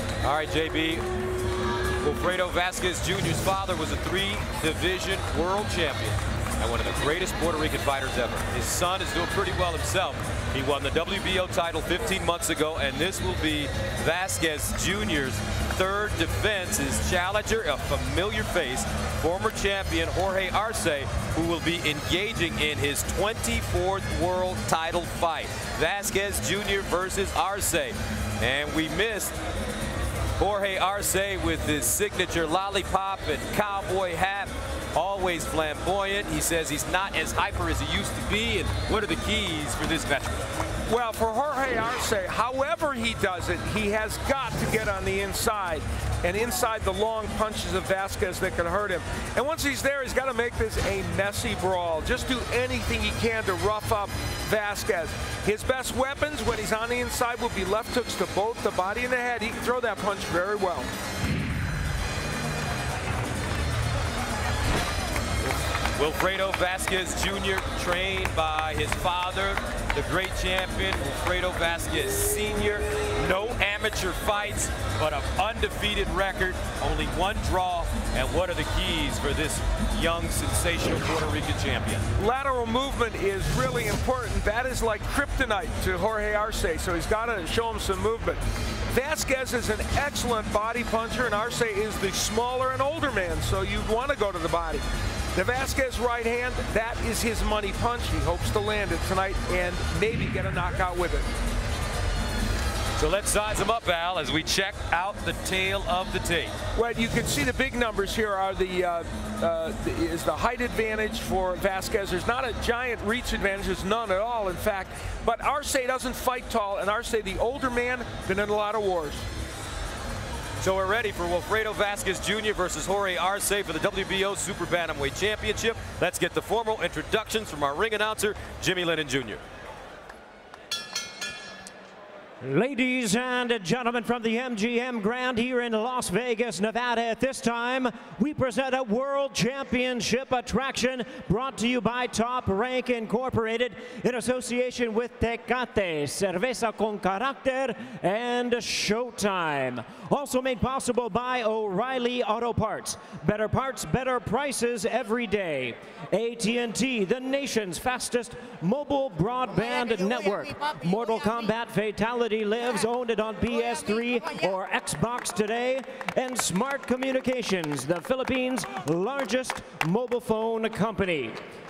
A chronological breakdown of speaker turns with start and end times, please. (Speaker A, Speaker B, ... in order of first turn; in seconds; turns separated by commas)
Speaker A: 0.2-1.0, Speaker A: 2.0-29.4, Speaker A: 30.4-40.5, Speaker B: 40.9-60.9, Speaker A: 66.0-82.1, Speaker B: 82.2-101.3, Speaker A: 103.0-106.5, Speaker B: 106.7-119.2, Speaker A: 120.6-129.4, Speaker C: 132.4-171.4